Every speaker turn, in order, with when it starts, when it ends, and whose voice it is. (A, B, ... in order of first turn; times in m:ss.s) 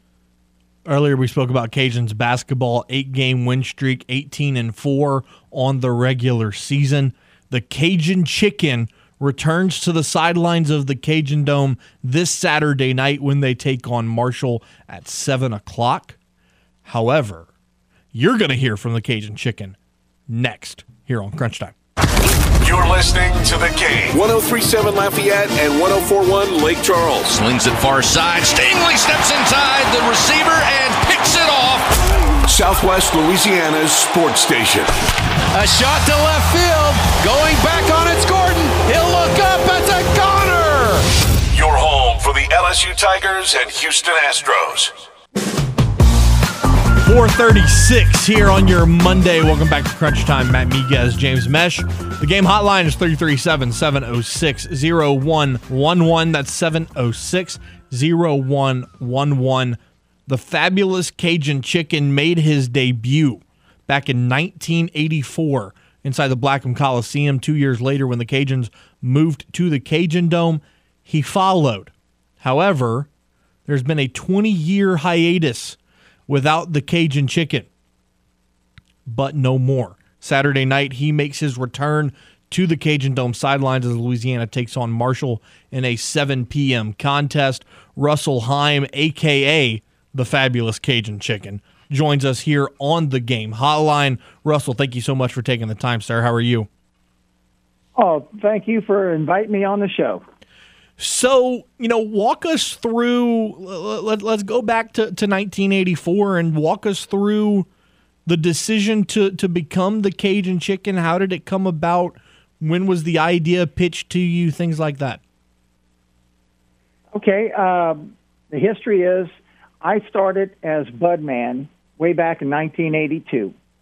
0:00.8-0:16.2 A
0:16.8-0:17.5 A
0:18.1-0:19.8 A
0:20.3-0:21.8 A
0:22.6-0:27.4 B
0:27.3-0:31.9 C
0:32.5-0:34.9 B
0:35.5-0:41.1 C
0:41.5-0:45.0 B
0:47.0-1:13.1 A
1:13.7-1:17.7 A
1:19.1-1:36.7 A
1:38.0-1:40.2 D
1:41.0-1:47.7 A
1:48.3-1:55.2 A
1:57.2-2:03.5 D